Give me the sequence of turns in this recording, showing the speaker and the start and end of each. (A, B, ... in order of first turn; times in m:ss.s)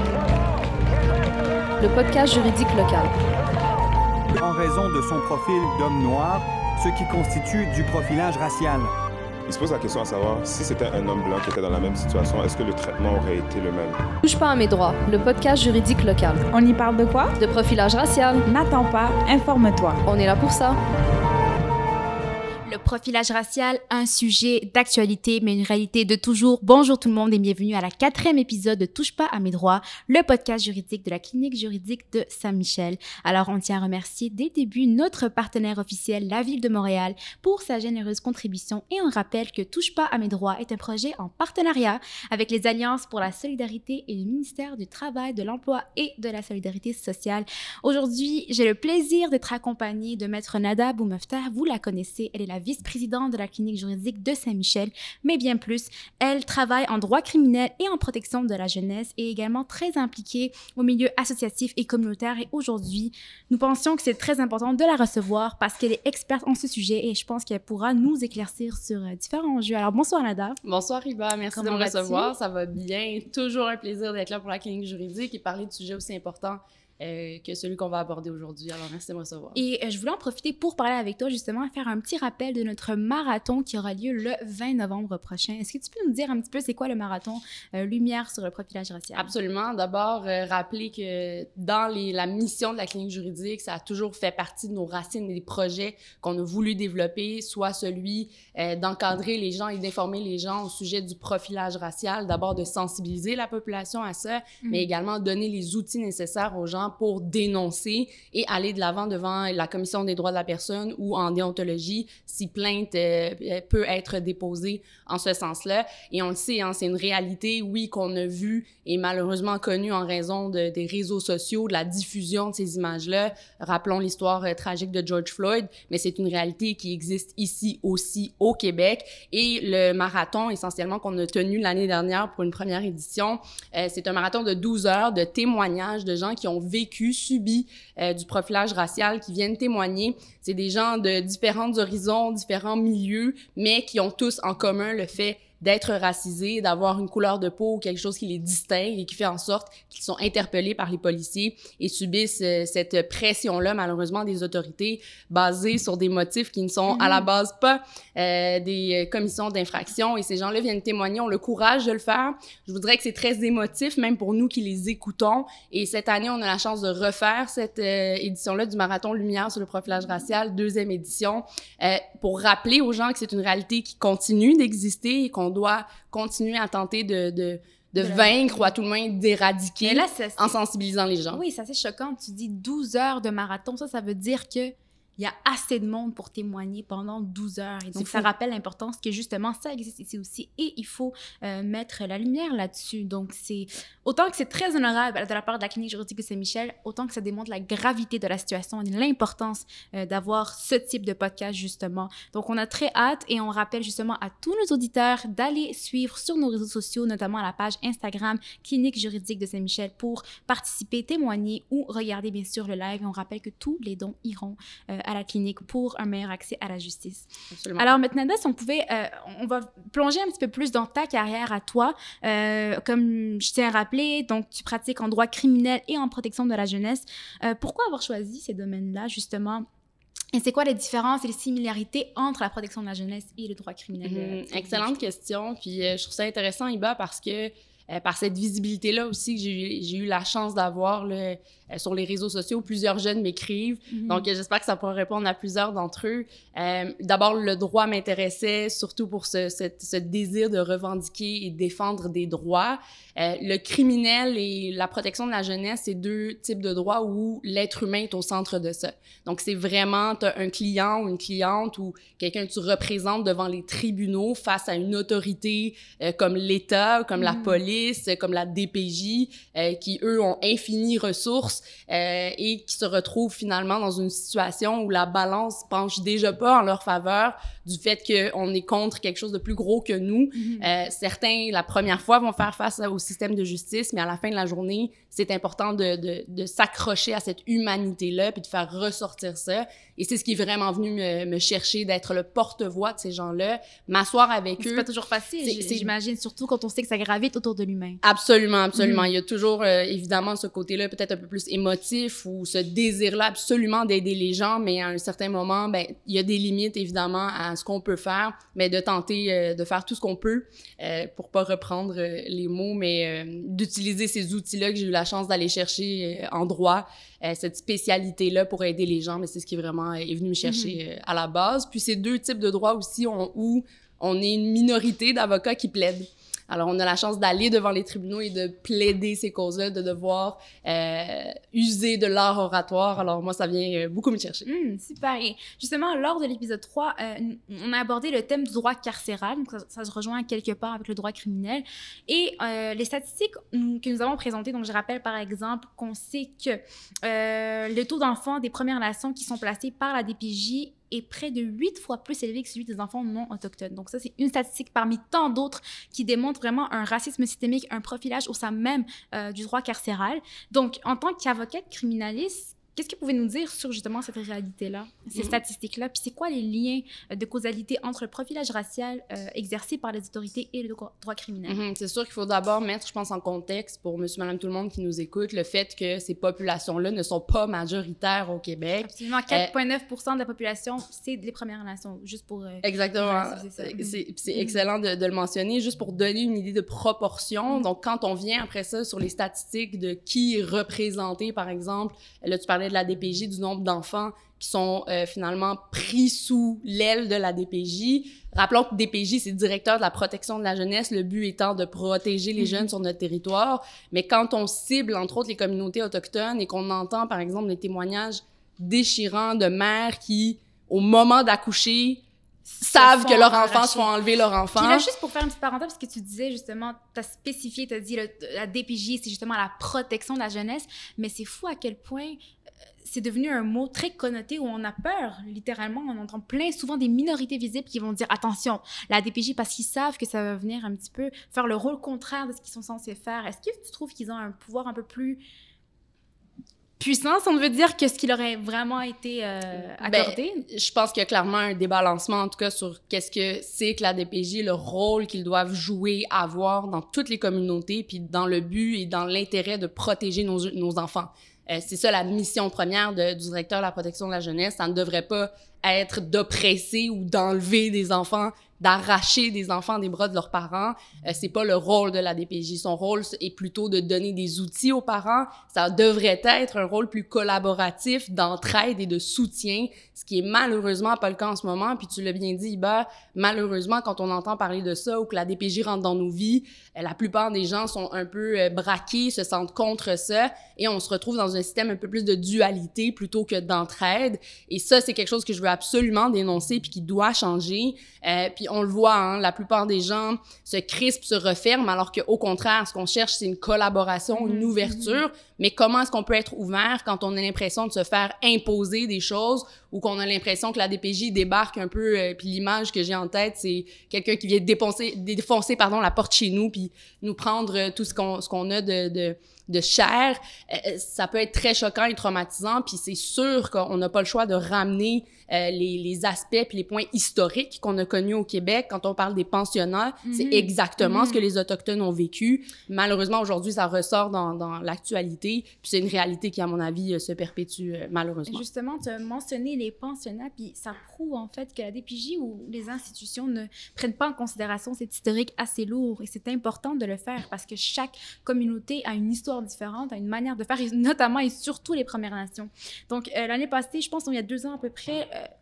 0:01.8-0:03.1 A
0:04.4-0:08.9 B
0:09.5-0:14.0 C
0:14.2-0:16.5 A
0:16.5-0:17.3 D
0:17.4-0:18.5 A
0:18.5-0:20.0 D
0:20.0-0:20.8 A
0:22.6-1:10.6 E
1:10.6-1:19.6 F
1:11.5-1:12.3 E
1:19.5-1:29.3 E
1:29.1-3:01.4 F
1:44.6-1:44.9 E
2:36.9-2:37.2 E
2:58.0-2:58.7 E
2:59.8-3:00.5 E
3:01.3-3:49.6 E
3:07.9-3:08.3 F
3:37.5-3:37.9 F
3:50.3-3:54.9 E
3:54.0-4:54.9 F
4:03.9-4:04.2 E
4:27.2-4:27.6 E
4:40.3-4:40.7 E
4:54.6-4:58.0 E
4:55.4-4:55.9 F
4:58.0-5:34.4 F
4:58.8-4:59.1 E
5:20.4-5:20.8 E
5:34.4-6:11.6 E
6:11.4-6:19.5 F
6:18.8-6:24.5 E
6:22.6-6:52.0 F
6:52.5-6:53.9 E
6:52.6-6:54.8 F
6:54.6-7:02.1 E
7:02.8-7:15.2 E
7:16.8-7:20.4 E
7:19.8-8:48.4 F
8:14.1-8:15.0 E
8:40.0-8:41.2 E
8:48.3-9:05.3 E